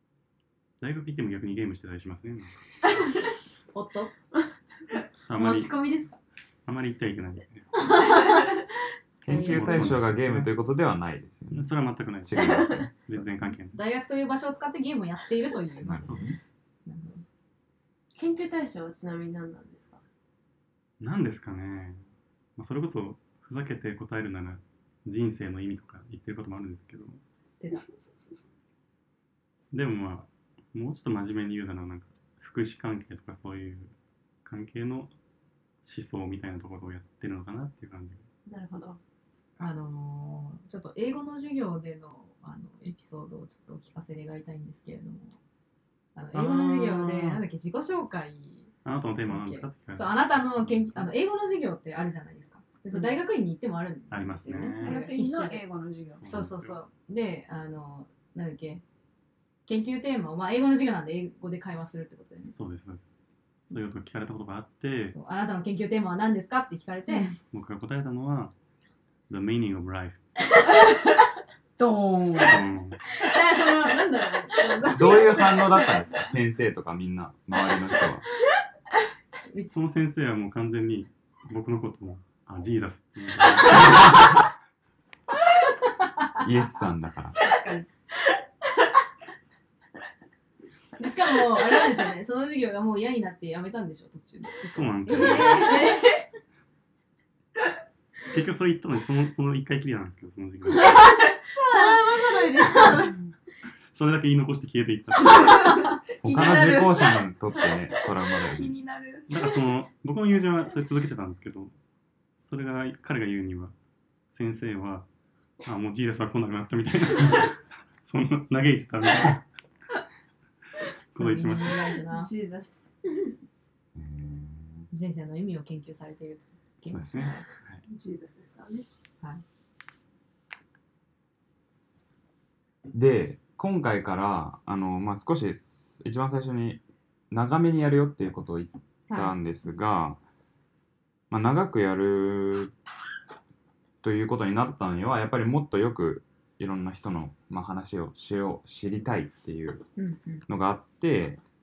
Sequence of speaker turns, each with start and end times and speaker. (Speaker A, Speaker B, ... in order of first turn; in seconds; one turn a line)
Speaker A: 0.8-2.6
Speaker B: 3.7-4.1
Speaker A: 5.2-5.8
Speaker C: 5.3-6.2
Speaker A: 6.7-7.9
Speaker C: 8.0-8.5
Speaker D: 9.2-11.7
Speaker B: 9.3-9.7
Speaker A: 9.3-10.5
Speaker A: 11.5-13.8
Speaker D: 12.2-12.9
Speaker C: 12.4-12.9
Speaker B: 13.7-16.3
Speaker D: 15.8-16.4
Speaker A: 16.0-16.4
Speaker B: 16.9-17.2
Speaker C: 18.1-20.0
Speaker A: 21.0-22.0
Speaker A: 22.6-27.2
Speaker A: 29.7-33.9
Speaker A: 34.5-35.1
Speaker A: 35.8-38.2
Speaker C: 38.5-39.0
Speaker B: 39.6-45.4
Speaker B: 46.2-48.7
Speaker A: 48.9-51.1
Speaker B: 49.3-55.7
Speaker A: 54.1-55.0
Speaker E: 54.8-56.4
Speaker A: 56.2-56.8
Speaker B: 56.2-58.8
Speaker B: 59.7-62.5
Speaker A: 62.5-63.1
Speaker A: 63.7-65.2
Speaker B: 65.1-67.3
Speaker A: 67.5-68.5
Speaker A: 69.3-70.2
Speaker E: 71.8-72.6
Speaker A: 72.4-73.0
Speaker B: 73.2-75.8
Speaker D: 74.9-78.2
Speaker A: 79.6-84.3
Speaker D: 86.4-87.4
Speaker E: 87.5-87.8
Speaker B: 91.0-95.9
Speaker A: 94.7-95.7
Speaker C: 95.1-96.1
Speaker E: 95.5-95.8
Speaker A: 98.3-101.1
Speaker B: 101.5-103.0
Speaker C: 101.8-103.0
Speaker E: 101.9-103.1
Speaker A: 103.9-105.6
Speaker D: 106.2-108.8
Speaker E: 106.3-107.0
Speaker C: 106.3-106.8
Speaker E: 108.5-109.3
Speaker A: 109.3-111.7
Speaker A: 112.4-113.7
Speaker A: 114.3-115.1
Speaker A: 115.6-119.4
Speaker A: 121.1-121.9
Speaker B: 121.2-122.3
Speaker C: 122.1-122.9
Speaker D: 124.0-124.9
Speaker B: 124.9-127.5
Speaker D: 126.9-127.2
Speaker A: 126.9-127.8
Speaker C: 127.9-128.9
Speaker D: 132.9-140.2
Speaker B: 139.1-139.3
Speaker D: 141.3-142.7
Speaker D: 144.0-149.8
Speaker B: 150.0-150.4
Speaker D: 150.5-151.4